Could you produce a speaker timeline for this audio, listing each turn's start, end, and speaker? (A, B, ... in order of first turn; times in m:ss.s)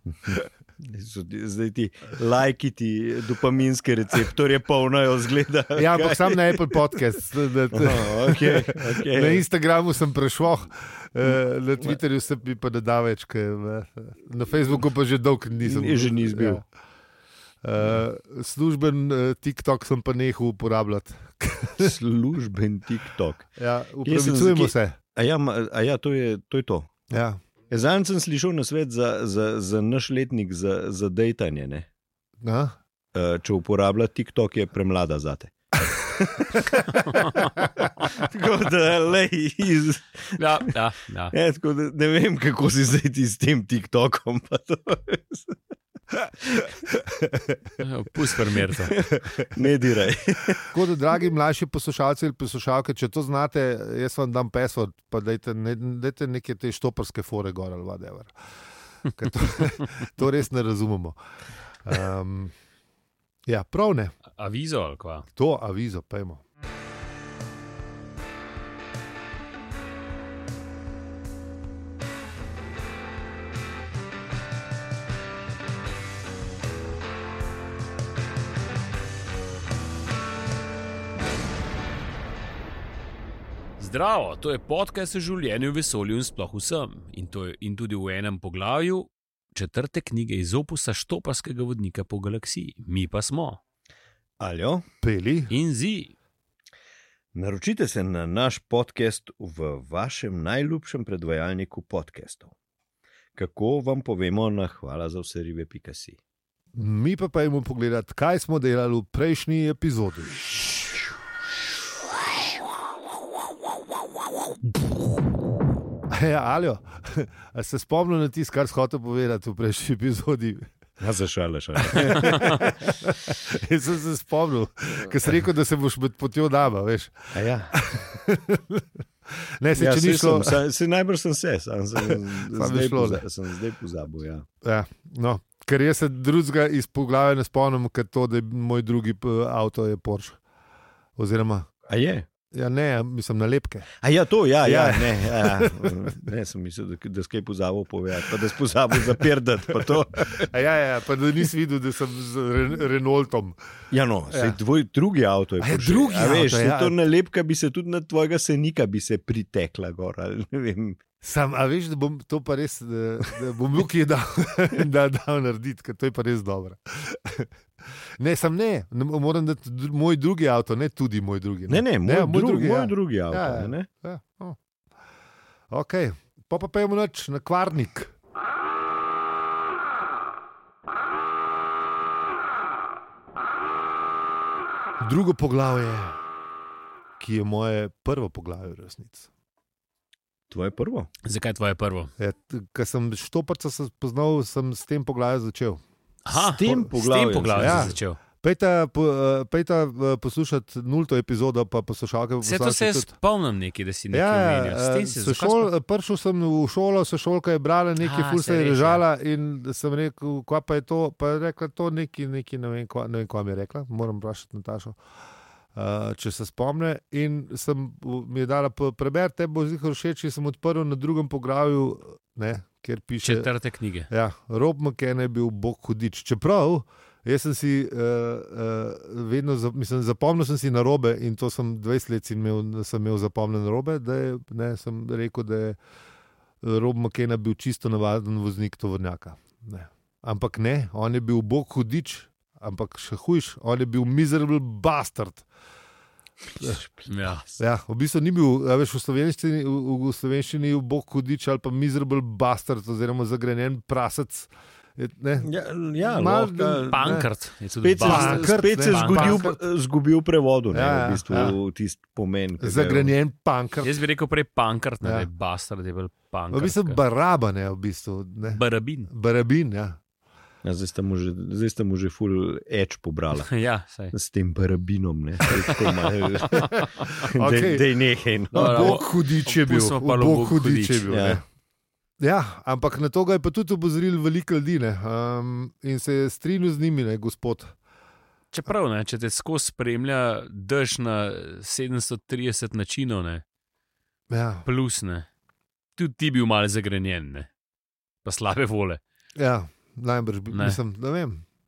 0:00.1-0:06.7 A
0:05.8-0:16.6 B
0:07.7-0:09.4 A
0:15.6-0:16.6 A
0:17.6-0:21.9 B
0:21.8-0:23.5 A
0:23.6-0:25.0 B
0:24.0-0:27.1 A
0:27.1-0:27.4 B
0:27.7-0:31.9 A
0:32.4-0:32.8 B
0:33.1-0:40.7 A
0:37.0-0:37.5 C
0:40.4-0:41.3 C
0:41.3-0:45.6 A
0:46.1-0:47.0 A
0:47.8-0:48.9 C
0:48.7-0:50.7 A
0:50.7-0:58.3 B
0:59.1-1:01.2 B
1:01.8-1:02.5 B
1:03.5-1:04.1 B
1:04.3-1:05.3 C
1:05.4-1:06.4 B
1:23.8-1:33.6 C
1:34.4-1:34.8 A
1:35.0-1:35.5 B
1:35.5-1:36.1 C
1:37.3-1:42.5 A
1:43.3-1:46.2 A
1:46.7-1:50.4 B
1:56.1-2:00.7 B
2:01.0-2:02.7 A
2:01.9-2:10.6 B
2:02.3-2:02.6 C
2:07.3-2:07.8 A
2:09.8-2:14.4 A
2:12.0-2:13.2 B
2:14.6-2:20.4 B
2:21.2-2:21.7 B
2:21.9-2:22.3 A
2:22.5-2:23.9 B
2:24.0-2:30.5 A
2:24.6-2:25.9 B
2:29.8-2:33.6 B
2:33.9-2:41.0 A
2:34.3-2:34.6 B
2:35.6-2:36.9 B
2:41.2-2:47.5 B
2:48.2-2:54.6 B
2:51.7-2:53.9 A
2:55.7-2:58.1 B
3:05.0-3:06.2 B
3:07.2-3:09.3 B
3:10.5-3:11.1 A
3:11.2-3:12.1 C
3:12.2-3:15.8 B
3:16.2-3:18.2 C
3:16.3-3:17.9 A
3:17.6-3:23.1 B
3:22.4-3:25.7 C
3:24.1-3:35.0 B
3:28.0-3:29.0 C
3:35.7-3:43.5 B
3:43.2-3:44.1 C
3:44.1-3:55.8 B
3:56.6-4:05.4 B
4:06.6-4:06.8 B
4:07.1-4:07.5 C
4:07.6-4:15.5 B
4:15.4-4:17.0 A
4:16.0-4:17.3 B
4:16.9-4:19.5 C
4:17.8-4:23.1 A
4:18.0-4:19.6 B
4:20.7-4:21.6 B
4:22.6-4:23.9 B
4:23.8-4:27.0 C
4:26.5-4:30.0 B
4:28.5-4:29.1 C
4:30.6-4:33.5 A
4:33.5-4:34.1 C
4:34.1-4:39.0 A
4:35.5-4:35.8 C
4:36.4-4:37.1 C
4:36.8-4:37.8 B
4:38.5-4:41.1 C
4:38.5-4:41.4 B
4:41.1-4:41.4 A
4:42.2-4:47.7 B
4:48.5-4:53.4 C
4:54.3-4:54.7 B
4:54.6-4:55.3 C
4:56.0-4:57.5 C
4:58.2-4:59.0 C
4:59.4-5:01.4 B
5:00.5-5:00.8 C